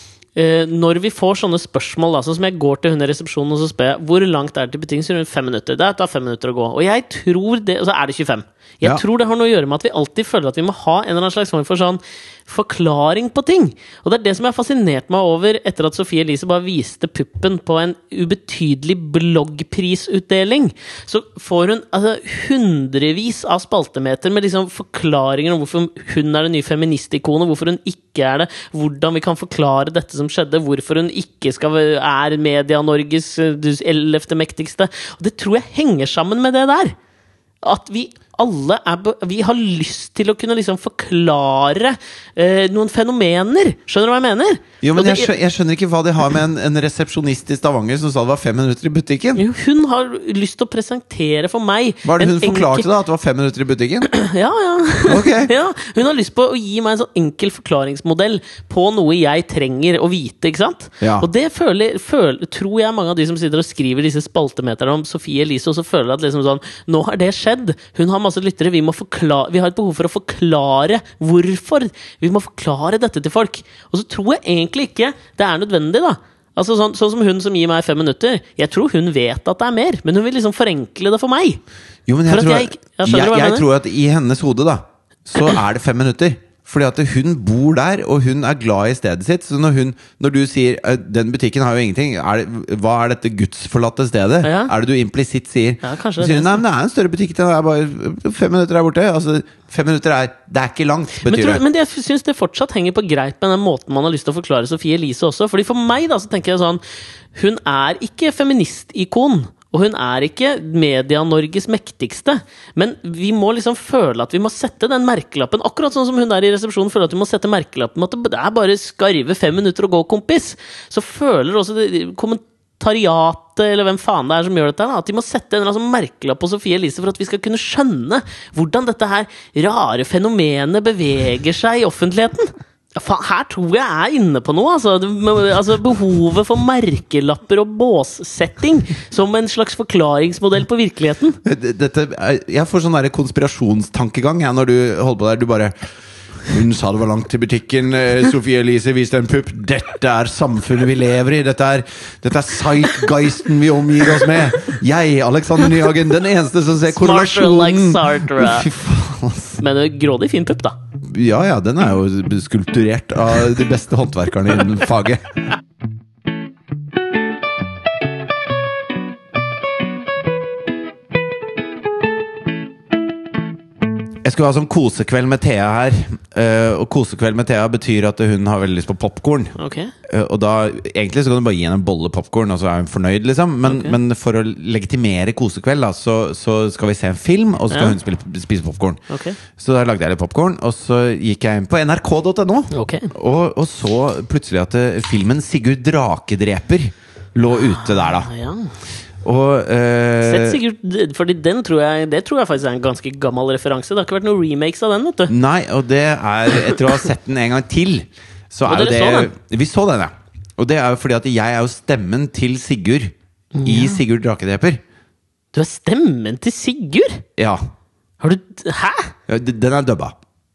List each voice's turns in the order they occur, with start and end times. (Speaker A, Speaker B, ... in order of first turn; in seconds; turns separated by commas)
Speaker A: 0.3-37.0, Speaker A: 37.6-45.3, Speaker B: 44.8-49.4, Speaker A: 49.4-52.9, Speaker B: 52.0-54.1, Speaker A: 54.1-81.6, Speaker B: 55.1-55.5, Speaker B: 61.0-61.3, Speaker B: 82.1-101.6, Speaker A: 82.3-83.7, Speaker A: 94.4-94.7, Speaker A: 95.8-96.6, Speaker A: 101.2-106.8, Speaker A: 107.3-141.4, Speaker B: 141.4-145.7, Speaker B: 146.5-159.6, Speaker A: 156.9-158.7, Speaker A: 159.6-160.8, Speaker B: 161.1-165.2, Speaker B: 174.2-179.5, Speaker A: 179.6-179.9, Speaker B: 180.1-189.0, Speaker A: 183.7-184.0, Speaker A: 187.7-188.0, Speaker A: 189.1-189.4, Speaker B: 189.6-198.3, Speaker A: 192.7-193.1, Speaker A: 197.5-198.7, Speaker B: 199.2-200.6, Speaker A: 200.2-205.3, Speaker B: 205.3-213.1, Speaker A: 208.7-209.3, Speaker A: 213.6-214.0, Speaker B: 213.7-214.8, Speaker A: 215.5-217.2, Speaker A: 218.2-219.1, Speaker B: 219.3-220.2